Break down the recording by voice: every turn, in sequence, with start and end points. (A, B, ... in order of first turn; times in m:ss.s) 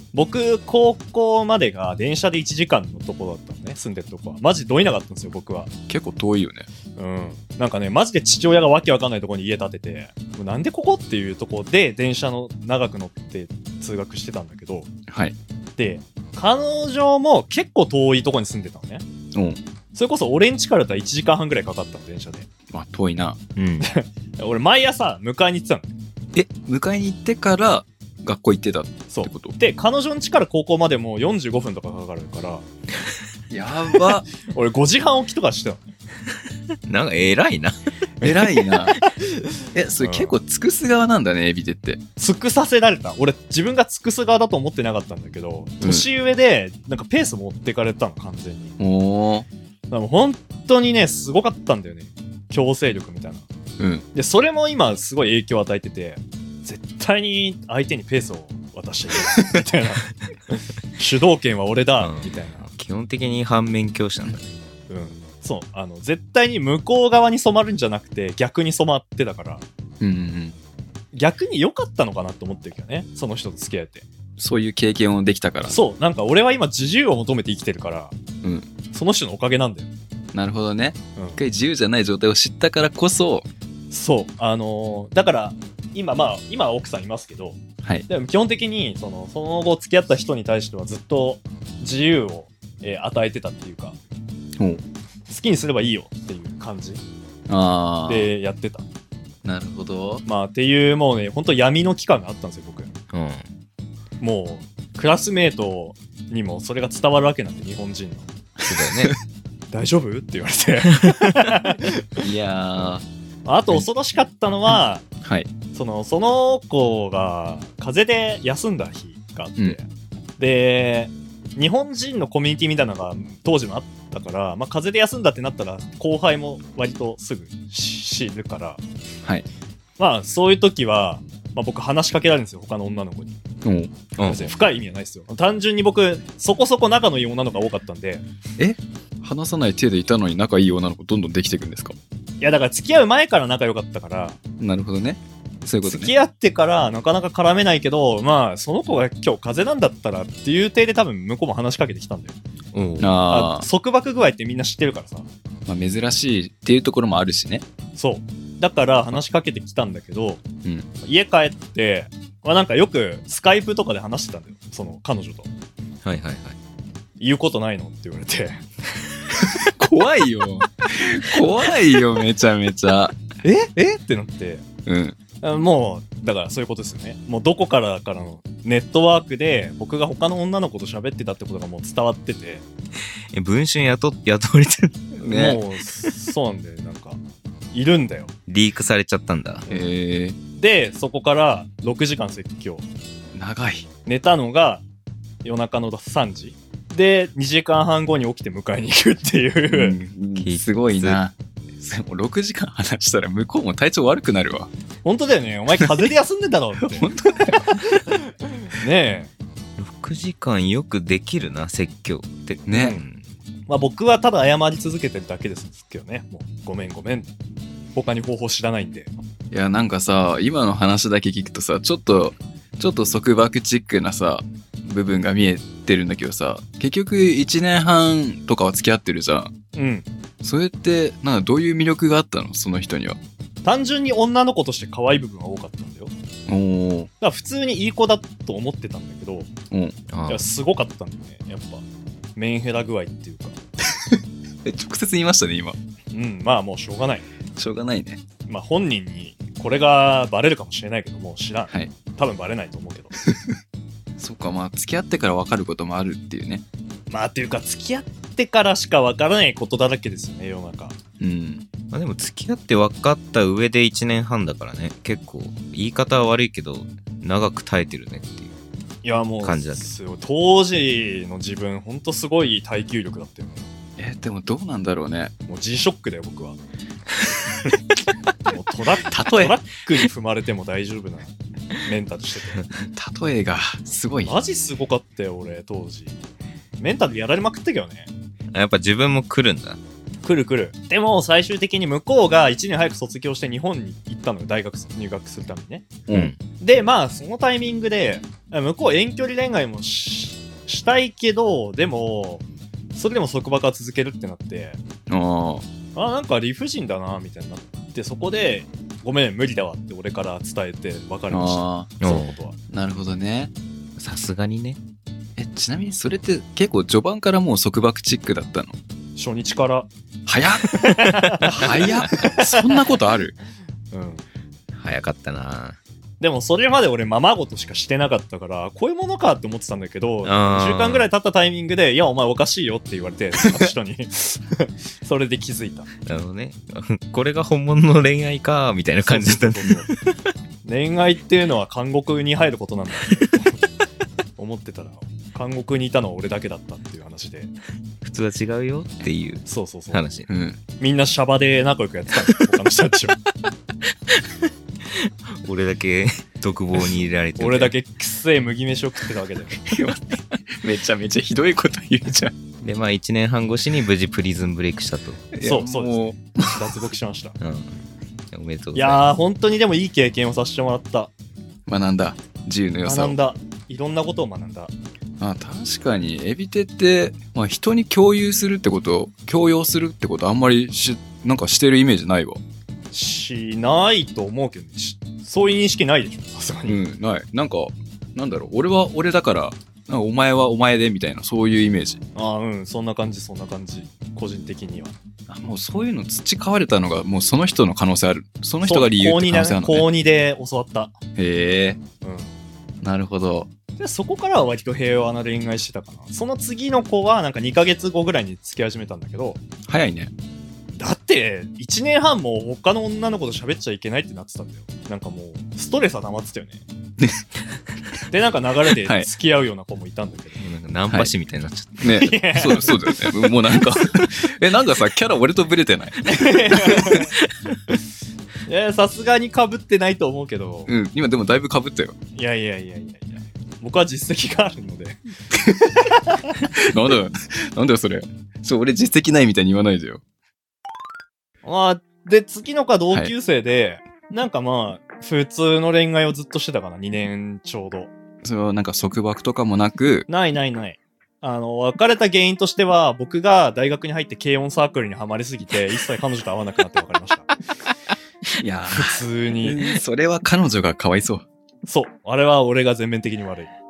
0:00.1-0:05.7 A
0:05.9-0:06.7 B
0:07.0-0:14.9 A
0:15.1-0:15.4 B
0:15.8-0:19.0 A
0:19.3-0:19.6 B
0:19.9-0:22.5 A
0:22.7-0:23.4 B
0:23.6-0:23.9 C
0:23.8-0:25.9 A
0:26.3-0:29.5 B
0:29.1-0:32.6 A
0:33.5-0:34.2 B
0:34.4-0:35.9 A
0:36.8-0:38.2 C
0:38.2-0:39.0 B
0:39.7-0:42.0 B
0:40.0-0:40.3 A
0:42.2-0:48.7 A
0:45.8-0:46.1 B
0:48.8-0:49.5 B
0:49.9-0:53.5 A
0:53.8-0:54.0 B
0:54.1-1:02.7 A
1:02.0-1:04.6 C
1:04.9-1:09.6 A
1:10.0-1:10.6 B
1:11.1-1:14.0 A
1:14.4-1:15.8 B
1:15.7-1:18.1 A
1:18.4-1:18.7 B
1:18.9-1:19.9 A
1:20.3-1:23.4 B
1:23.9-1:34.0 A
1:35.3-1:37.0 A
1:37.5-1:38.3 B
1:38.1-1:38.9 A
1:39.4-1:40.2 B
1:40.2-1:43.0 A
1:43.1-1:43.5 C
1:44.2-1:48.3 A
1:48.7-1:49.1 C
1:48.8-1:49.2 B
1:49.7-1:52.2 A
1:51.0-1:51.5 C
1:52.2-1:53.0 B
1:53.4-1:55.0 A
1:55.2-1:55.5 B
1:55.7-1:59.8 A
2:00.4-2:08.8 A
2:10.0-2:13.4 A
2:13.6-2:14.0 B
2:14.2-2:14.5 C
2:14.2-2:18.2 A
2:18.6-2:22.0 B
2:22.4-2:24.4 A
2:24.6-2:26.1 B
2:25.8-2:32.4 A
2:32.7-2:33.2 C
2:33.0-2:33.6 B
2:33.3-2:35.3 A
2:35.7-2:37.6 B
2:38.0-2:40.4 A
2:41.0-2:45.5 A
2:46.0-2:46.6 C
2:47.2-2:48.6 A
2:49.4-2:53.2 B
2:53.4-2:54.6 A
2:54.8-2:55.2 B
2:55.4-3:02.6 A
3:03.3-3:05.1 C
3:05.1-3:05.6 B
3:05.2-3:07.2 A
3:07.7-3:08.3 A
3:08.5-3:09.7 C
3:09.7-3:10.4 B
3:10.6-3:12.8 A
3:13.3-3:13.9 B
3:14.0-3:14.8 A
3:15.4-3:20.0 A
3:19.7-3:24.7 B
3:20.4-3:21.2 C
3:25.0-3:27.1 A
3:26.8-3:28.0 B
3:27.8-3:29.3 A
3:29.8-3:33.2 C
3:32.7-3:33.0 B
3:32.7-3:33.0 A
3:33.7-3:37.3 A
3:37.9-3:39.1 A
3:39.5-3:49.5 B
3:49.7-3:50.1 A
3:50.4-3:53.2 B
3:53.6-3:56.1 A
3:56.5-3:57.1 B
3:57.2-3:59.5 A
3:59.7-4:00.0 B
4:00.1-4:00.5 C
4:00.3-4:01.8 A
4:02.4-4:03.6 A
4:04.0-4:05.8 B
4:06.1-4:07.3 A
4:07.6-4:08.2 B
4:08.5-4:13.1 A
4:13.2-4:13.6 B
4:14.2-4:16.6 B
4:17.1-4:21.0 A
4:21.2-4:21.6 B
4:21.9-4:28.5 C
4:29.0-4:33.6 A
4:29.4-4:29.9 C
4:34.0-4:35.3 B
4:35.5-4:36.6 A
4:38.5-4:42.6 A
4:39.1-4:39.6 B
4:42.9-4:44.4 B
4:44.2-4:46.2 A
4:46.8-4:48.1 A
4:48.5-4:49.8 C
4:50.2-4:55.9 A
4:56.1-4:56.3 B
4:56.1-4:56.4 C
4:56.6-5:04.8 A
5:05.1-5:05.6 B
5:05.9-5:12.6 A
5:11.3-5:12.0 B
5:12.0-5:12.4 C
5:12.7-5:13.5 B
5:14.0-5:14.8 C
5:15.4-5:18.8 B
5:19.2-5:19.9 A
5:20.2-5:20.8 B
5:20.7-5:22.9 A
5:21.0-5:22.2 C
5:21.4-5:23.4 B
5:23.9-5:24.2 A
5:24.7-5:25.8 C
5:26.2-5:35.9 A
5:30.2-5:31.1 C
5:36.0-5:39.9 C
5:39.0-5:39.9 A
5:40.6-5:43.6 A
5:44.4-5:47.5 A
5:48.0-5:50.3 C
5:49.4-5:50.0 A
5:50.3-5:50.6 B
5:50.8-5:53.2 A
5:54.1-5:57.7 C
5:57.4-5:59.6 A
5:59.7-6:02.3 B
6:02.6-6:05.3 C
6:05.3-6:06.6 B
6:05.4-6:07.4 A
6:07.4-6:09.1 C
6:08.7-6:11.1 A
6:11.7-6:13.2 B
6:12.8-6:14.7 A
6:15.2-6:22.4 B
6:22.9-6:26.8 A
6:26.7-6:32.0 B
6:32.1-6:35.0 A
6:35.3-6:39.8 B
6:38.6-6:41.0 A
6:41.2-6:41.8 B
6:42.0-6:42.3 A
6:42.8-6:43.5 B
6:43.8-6:49.4 A
6:49.7-6:50.1 B
6:50.7-6:56.6 A
6:58.1-7:00.4 A
7:00.4-7:01.9 C
7:01.8-7:07.0 B
7:02.0-7:02.8 A
7:06.1-7:07.2 A
7:07.3-7:07.6 C
7:08.4-7:10.7 A
7:10.7-7:11.9 B
7:12.1-7:15.0 A
7:15.8-7:16.4 A
7:16.6-7:20.0 B
7:21.4-7:27.9 A
7:28.2-7:30.1 B
7:30.1-7:37.3 A
7:38.4-7:41.2 B
7:38.7-7:39.6 A
7:41.6-7:43.5 A